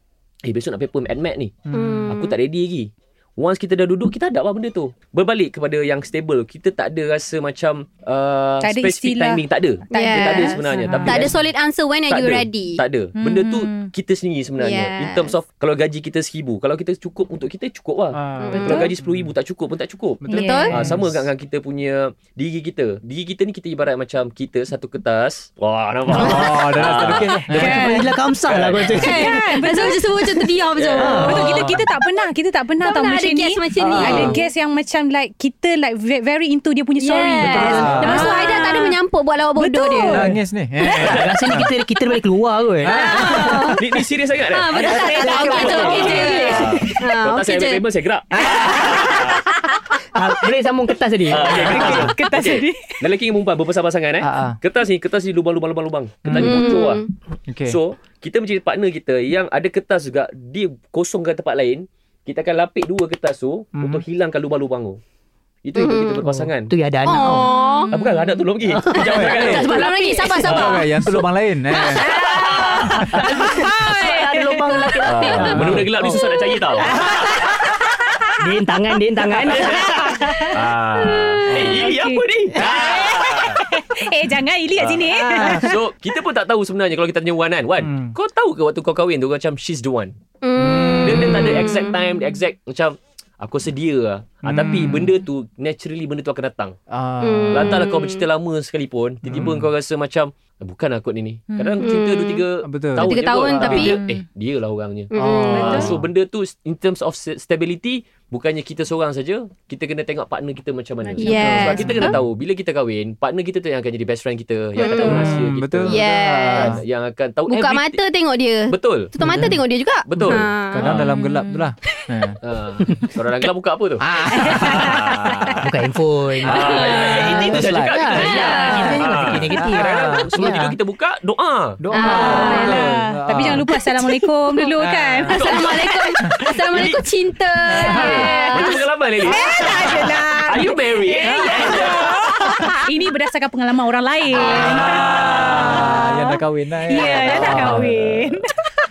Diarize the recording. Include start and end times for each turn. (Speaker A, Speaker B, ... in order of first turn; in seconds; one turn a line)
Speaker A: 0.4-1.5
Speaker B: 1.7-2.3
Speaker A: 2.1-11.4
Speaker C: 8.6-11.3
Speaker B: 9.9-12.8
Speaker D: 10.8-11.2
Speaker A: 12.1-27.8
Speaker C: 13.2-13.9
Speaker B: 14.6-15.4
Speaker D: 18.1-19.3
Speaker B: 18.4-18.9
Speaker D: 20.2-21.2
Speaker C: 20.3-20.8
Speaker B: 20.3-20.7
Speaker E: 26.1-29.4
Speaker D: 26.1-28.0
Speaker C: 27.6-28.1
Speaker A: 28.5-29.3
Speaker C: 28.9-39.0
Speaker B: 28.9-31.6
Speaker A: 30.8-31.6
Speaker E: 31.0-31.6
Speaker D: 31.3-31.8
Speaker B: 32.8-34.4
Speaker D: 33.8-34.4
Speaker B: 37.0-40.3
Speaker D: 37.4-38.3
Speaker E: 37.5-38.0
Speaker C: 39.5-41.1
Speaker D: 40.1-41.7
Speaker E: 41.0-43.0
Speaker A: 41.0-41.4
Speaker D: 42.8-43.8
Speaker B: 42.9-43.8
Speaker C: 43.3-43.7
Speaker A: 43.8-49.4
Speaker B: 44.5-47.8
Speaker C: 44.8-46.6
Speaker E: 45.0-46.9
Speaker D: 48.3-49.2
Speaker E: 50.1-52.1
Speaker A: 51.3-57.0
Speaker C: 51.6-53.0
Speaker D: 51.7-52.1
Speaker D: 54.2-54.6
Speaker D: 56.2-56.8
Speaker B: 56.3-57.0
Speaker D: 57.5-57.8
Speaker A: 57.6-65.0
Speaker D: 63.8-64.0
Speaker A: 65.6-66.7
Speaker B: 65.8-66.2
Speaker E: 66.2-67.5
Speaker B: 67.0-67.9
Speaker A: 67.9-71.3
Speaker E: 68.7-70.5
Speaker D: 69.0-69.6
Speaker B: 69.0-70.9
Speaker D: 70.4-72.0
Speaker B: 72.0-72.8
Speaker A: 72.0-73.7
Speaker C: 72.2-75.6
Speaker E: 73.2-76.2
Speaker A: 75.0-77.5
Speaker D: 75.5-75.9
Speaker C: 76.8-78.4
Speaker E: 76.8-77.2
Speaker E: 78.4-80.5
Speaker A: 79.4-80.0
Speaker C: 79.6-80.6
Speaker A: 80.5-83.6
Speaker D: 81.5-81.8
Speaker C: 81.5-85.8
Speaker A: 84.8-90.1
Speaker D: 85.0-85.7
Speaker D: 87.8-88.1
Speaker B: 90.4-91.7
Speaker D: 90.6-91.7
Speaker A: 91.0-96.8
Speaker D: 94.4-95.1
Speaker D: 96.9-97.8
Speaker B: 97.2-98.2
Speaker A: 97.5-118.0
Speaker D: 99.2-99.7
Speaker C: 101.5-101.9
Speaker B: 101.8-102.4
Speaker D: 102.6-104.0
Speaker B: 103.0-104.0
Speaker C: 103.6-104.2
Speaker B: 105.1-105.9
Speaker D: 105.1-106.0
Speaker C: 105.5-105.9
Speaker C: 111.1-111.8
Speaker B: 111.2-112.2
Speaker D: 111.2-112.2
Speaker C: 114.8-115.3
Speaker B: 114.8-115.1
Speaker D: 115.0-116.8
Speaker B: 115.8-116.8
Speaker B: 117.5-120.8
Speaker A: 118.7-119.1
Speaker E: 119.2-119.6
Speaker A: 120.1-121.1
Speaker D: 120.3-122.4
Speaker C: 120.9-121.6
Speaker A: 122.4-125.6
Speaker D: 124.0-125.6
Speaker C: 124.3-125.7
Speaker E: 125.6-130.7
Speaker A: 126.4-131.8
Speaker B: 126.5-127.4
Speaker D: 127.2-127.9
Speaker B: 128.1-129.0
Speaker C: 128.4-129.0
Speaker D: 129.6-130.3
Speaker D: 131.8-133.7
Speaker B: 131.9-132.9
Speaker C: 132.0-135.7
Speaker D: 134.8-135.4
Speaker A: 135.3-137.0
Speaker B: 135.3-138.8
Speaker D: 137.8-138.1
Speaker C: 137.8-148.7
Speaker A: 137.9-142.4
Speaker D: 144.5-148.4
Speaker A: 147.2-147.8